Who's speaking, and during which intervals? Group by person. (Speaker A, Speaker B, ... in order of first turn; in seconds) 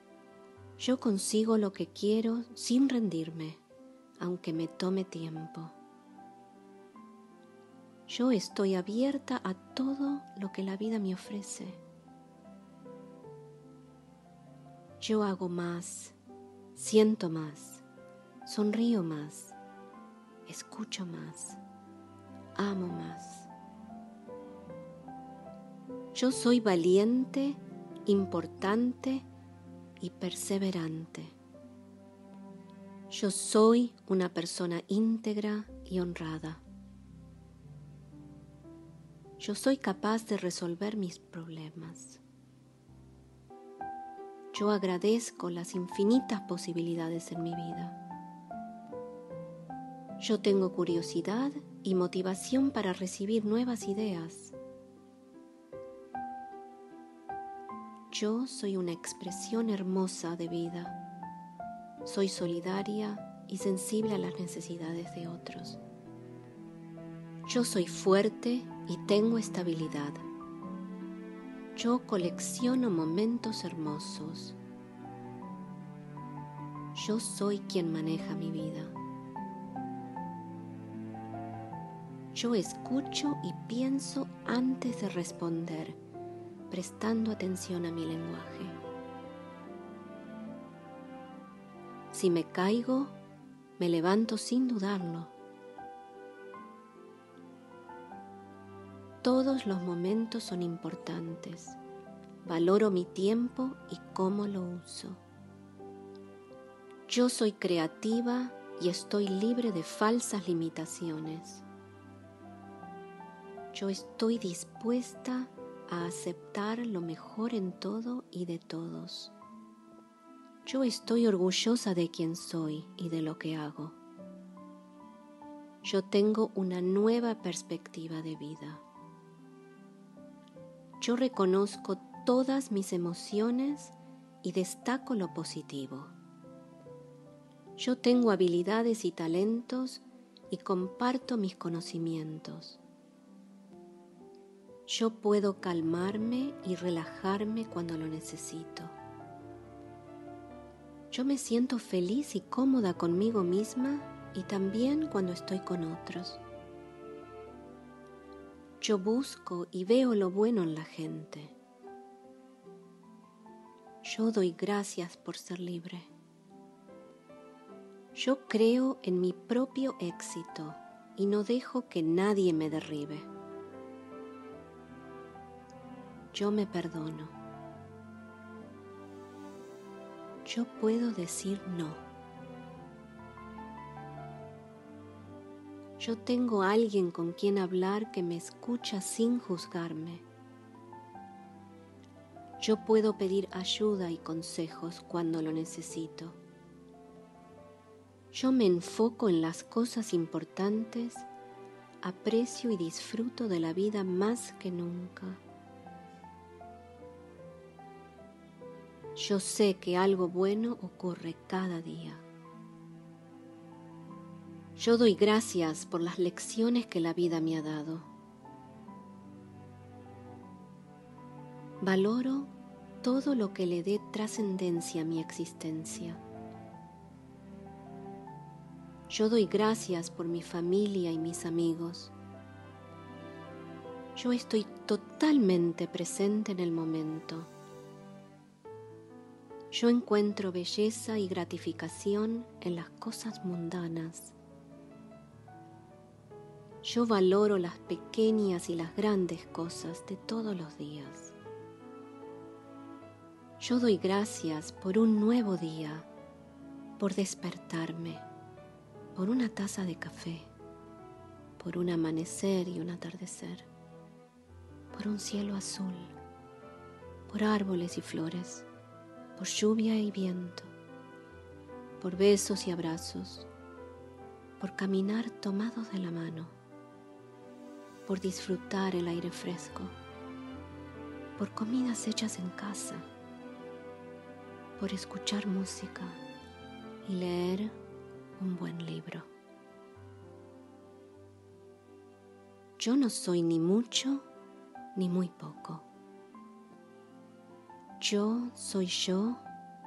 Speaker A: 0.8-3.6, 4.2-5.8, 8.1-11.8, 15.0-16.1, 16.7-17.8, 18.4-19.6, 20.5-21.6, 22.6-23.5, 26.1-29.2, 30.0-31.3, 33.1-36.6, 39.4-42.2, 44.5-48.0, 50.2-54.5, 58.1-61.0, 62.0-65.8, 67.5-70.2, 71.7-74.6, 76.9-78.9, 82.3-86.0, 86.7-88.8, 92.1-93.2, 93.8-95.3, 99.2-101.8, 102.4-105.2, 107.1-111.6, 113.7-119.3, 120.6-124.0, 125.8-128.8, 131.0-136.1, 137.8-142.8, 144.9-148.9, 151.1-156.4, 158.8-161.6, 164.0-166.1, 168.1-173.3, 176.3-177.3, 180.4-182.0, 186.0-190.2, 192.6-196.4, 198.3-201.3, 202.0-205.4, 209.2-212.2, 214.8-218.1, 221.8-226.2, 229.1-232.1, 234.2-237.5, 239.7-244.3, 246.8-251.3, 253.6-256.1, 257.0-258.2, 259.1-260.5, 261.6-263.7, 264.9-266.1, 267.3-268.7, 269.4-270.7, 272.0-273.5, 274.6-276.6, 278.1-279.9, 281.4-283.1, 284.8-286.2, 287.0-287.7, 288.4-289.3, 292.8-294.2, 294.9-295.9, 298.0-299.4